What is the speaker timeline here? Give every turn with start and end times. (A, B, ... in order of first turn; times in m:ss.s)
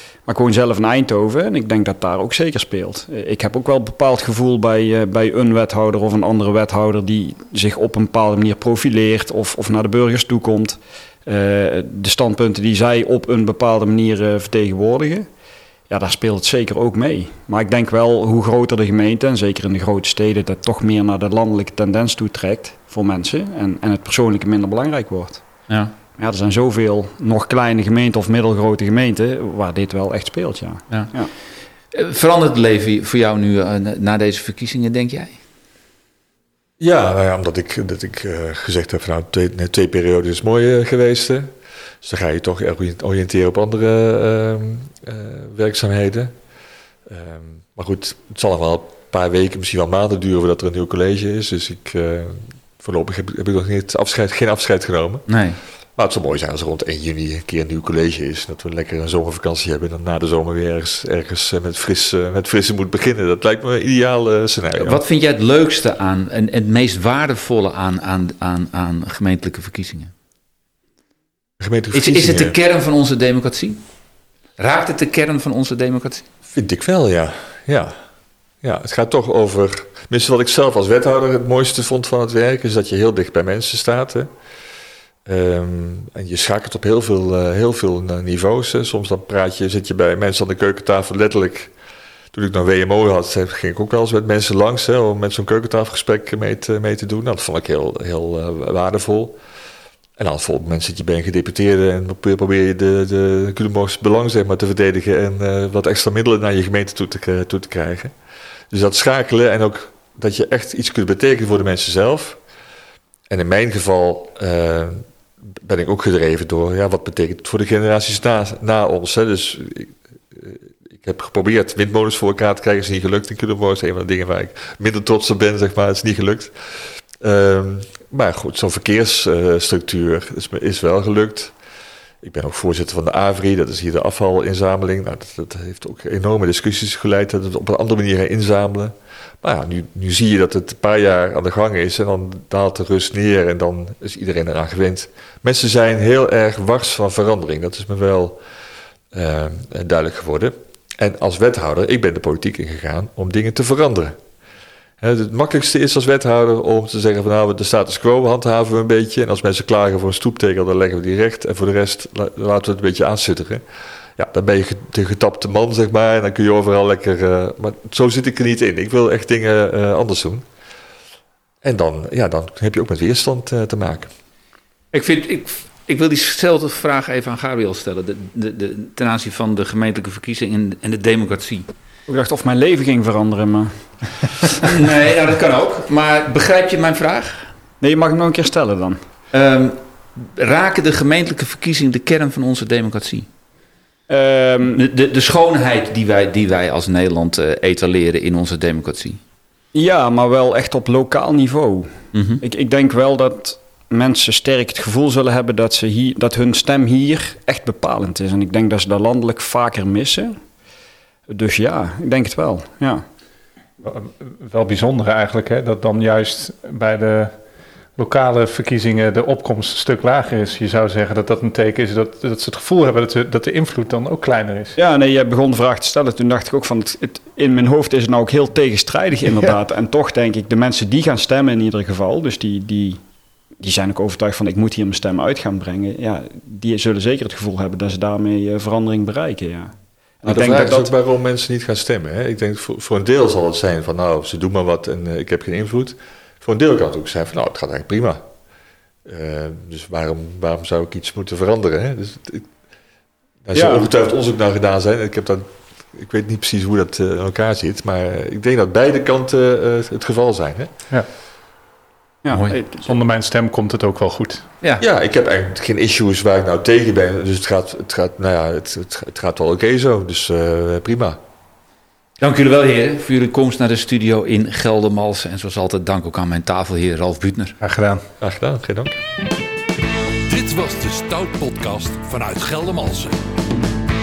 0:00.3-0:15.3 A
0:15.9-0:25.4 A
0:25.7-0:25.9 B
0:26.2-0:31.3 A
0:31.9-0:35.4 B
0:36.8-0:41.5 C
0:42.0-0:46.3 C
0:47.1-0:55.3 C
0:55.3-0:55.6 B
0:56.0-1:05.0 C
1:04.8-1:10.1 B
1:11.6-1:12.6 C
1:11.9-1:13.8 B
1:14.6-1:16.3 B
1:16.5-1:18.0 C
1:18.6-1:24.3 C
1:25.3-1:31.7 C
1:32.3-1:39.4 C
1:40.2-1:48.1 C
1:48.7-1:52.4 C
1:53.3-2:06.5 C
2:07.2-2:11.5 C
2:12.2-2:28.4 C
2:29.1-2:34.2 C
2:35.0-2:43.6 C
2:44.2-2:50.4 C
2:51.6-2:54.1 C
2:54.9-3:01.7 B
3:02.1-3:04.6 A
3:04.5-3:07.5 B
3:07.8-3:09.0 A
3:09.3-3:13.3 B
3:14.1-3:14.8 A
3:14.7-3:19.2 B
3:19.7-3:30.4 A
3:22.1-3:22.4 B
3:31.3-3:33.0 A
3:33.8-3:37.3 D
3:38.0-3:44.7 D
3:44.8-3:53.0 A
3:53.6-4:00.9 A
4:00.2-4:08.2 C
4:09.1-4:12.5 C
4:13.4-4:20.7 C
4:13.5-4:13.9 A
4:22.2-4:23.0 A
4:22.3-4:22.6 B
4:22.8-4:24.4 D
4:24.8-4:31.2 C
4:32.2-4:37.6 B
4:37.6-4:38.0 D
4:38.2-4:39.0 C
4:40.3-4:43.2 E